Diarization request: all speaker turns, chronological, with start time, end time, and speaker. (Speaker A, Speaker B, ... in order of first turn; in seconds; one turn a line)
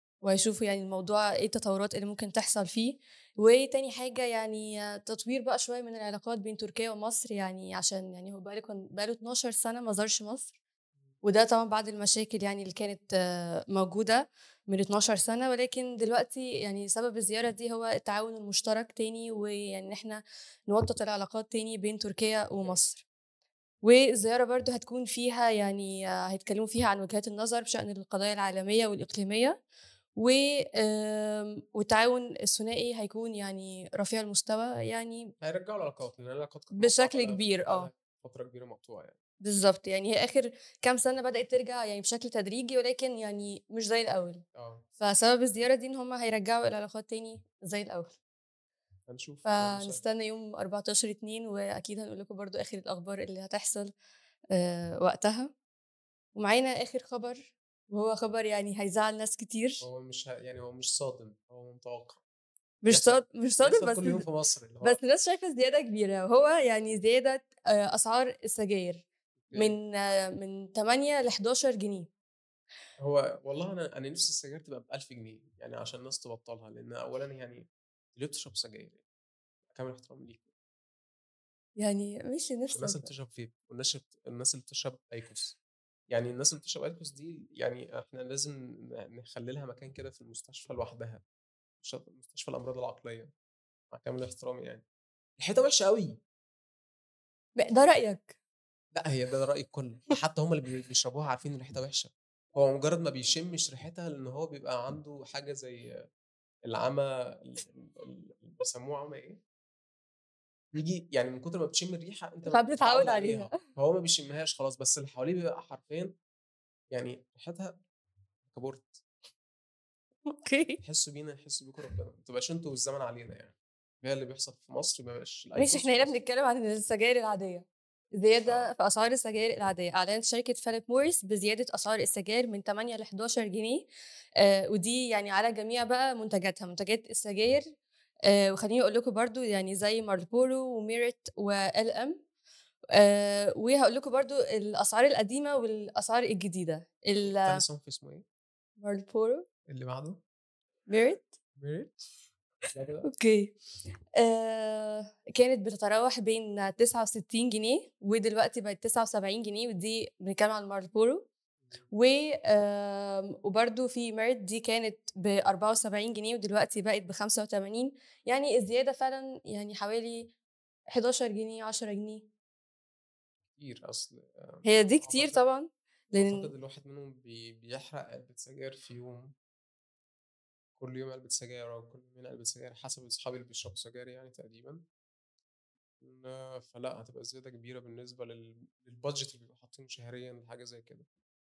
Speaker A: 0.2-10.6
Speaker A: 11.2-23.0
Speaker B: 22.6-22.9
Speaker A: 23.8-29.6
Speaker A: 30.2-35.3
Speaker B: 35.4-39.2
Speaker A: 36.8-37.9
Speaker A: 39.4-44.4
Speaker B: 44.5-44.9
Speaker A: 45.0-48.2
Speaker B: 49.1-50.0
Speaker A: 49.5-53.9
Speaker A: 54.5-55.5
Speaker A: 56.4-59.9
Speaker B: 59.8-62.2
Speaker A: 62.8-64.2
Speaker B: 62.9-65.0
Speaker A: 64.8-72.1
Speaker B: 69.5-69.8
Speaker B: 73.0-79.0
Speaker B: 79.7-80.5
Speaker A: 81.8-83.1
Speaker B: 82.7-85.6
Speaker B: 86.1-91.2
Speaker B: 91.8-93.3
Speaker B: 93.9-94.8
Speaker B: 95.4-96.2
Speaker A: 97.6-98.4
Speaker B: 98.9-105.9
Speaker B: 106.7-109.4
Speaker B: 110.7-116.2
Speaker A: 112.5-113.6
Speaker B: 116.9-117.8
Speaker B: 118.5-119.0
Speaker A: 120.3-120.8
Speaker B: 120.8-126.2
Speaker A: 125.6-133.9
Speaker B: 128.4-128.7
Speaker A: 134.4-137.7
Speaker A: 138.3-142.2
Speaker A: 142.9-147.6
Speaker B: 147.2-148.2
Speaker A: 148.8-149.5
Speaker B: 149.7-150.2
Speaker A: 150.9-151.3
Speaker B: 151.6-152.0
Speaker B: 152.7-153.1
Speaker A: 153.1-153.6
Speaker A: 154.2-161.3
Speaker A: 161.9-170.3
Speaker A: 170.9-172.2
Speaker B: 173.6-175.4
Speaker A: 174.7-176.5
Speaker B: 176.2-179.3
Speaker B: 180.8-184.8
Speaker B: 186.0-191.1